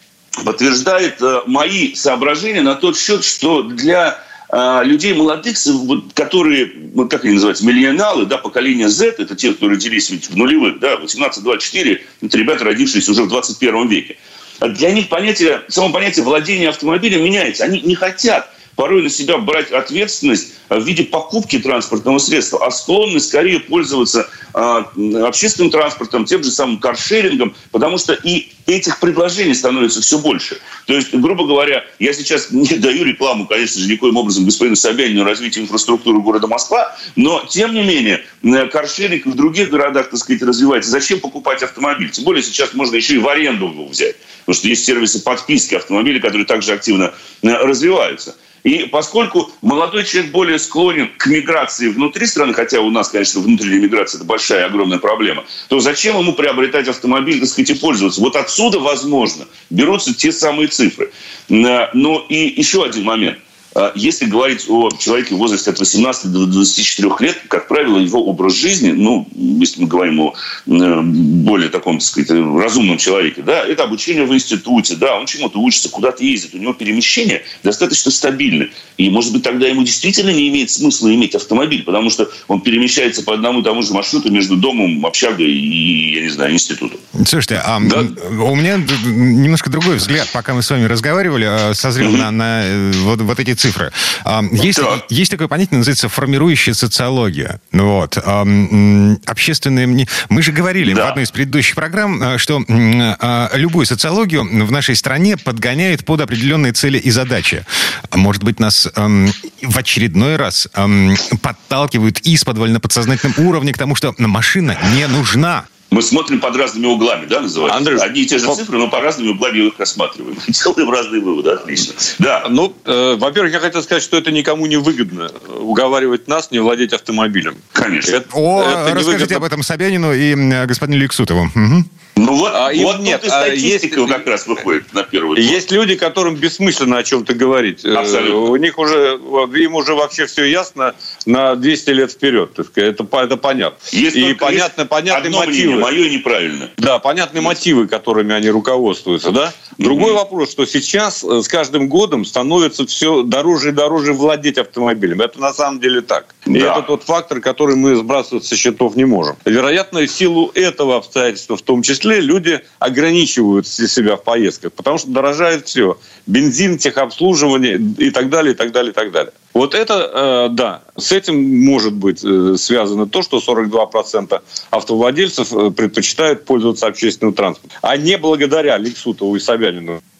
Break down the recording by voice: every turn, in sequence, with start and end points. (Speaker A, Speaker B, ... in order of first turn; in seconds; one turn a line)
Speaker A: 0.4-87.0
Speaker B: 87.2-115.7
Speaker A: 92.0-92.3
Speaker A: 94.6-95.0
Speaker A: 100.8-101.2
Speaker A: 115.9-122.5
Speaker C: 117.7-118.6
Speaker C: 122.4-129.4
Speaker A: 127.8-128.2
Speaker B: 128.3-131.9
Speaker A: 132.2-135.6
Speaker C: 132.5-134.2
Speaker C: 135.3-145.9
Speaker A: 137.9-138.5
Speaker A: 143.9-146.7
Speaker C: 146.8-180.0
Speaker A: 149.8-150.2
Speaker A: 156.5-156.8